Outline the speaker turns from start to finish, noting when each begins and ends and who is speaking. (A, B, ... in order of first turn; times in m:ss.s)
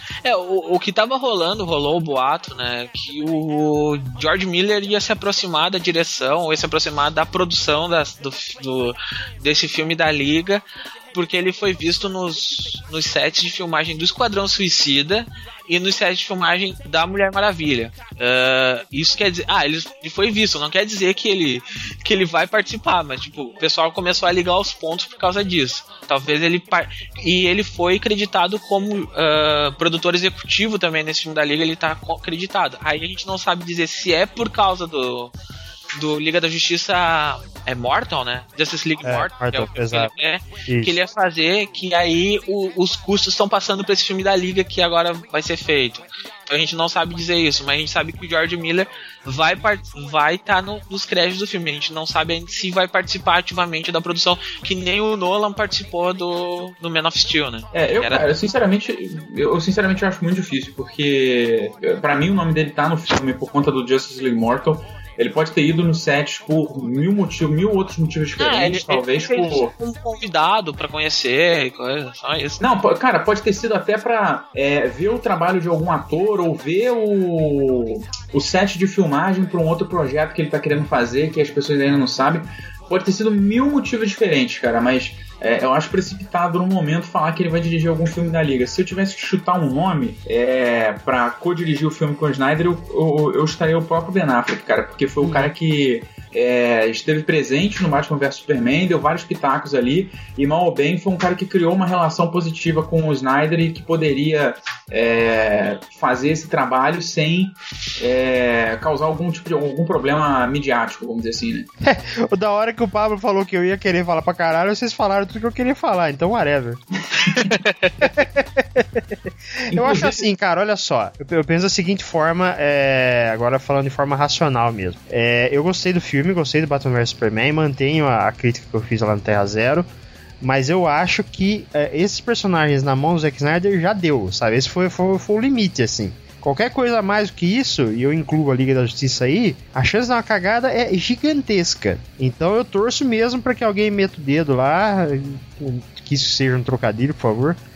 0:00.2-0:35.3 A
0:36.0-0:58.2 A
0:39.0-0:40.1 B
0:40.7-0:41.0 B
0:57.7-1:09.7 C
1:08.4-1:12.6 A
1:12.6-1:51.7 C
1:35.2-1:35.5 B
1:51.8-1:56.8 B
1:57.2-1:58.0 A
1:58.0-1:59.2 B
1:59.7-2:00.3 C
1:59.7-2:09.9 B
2:10.4-2:27.6 B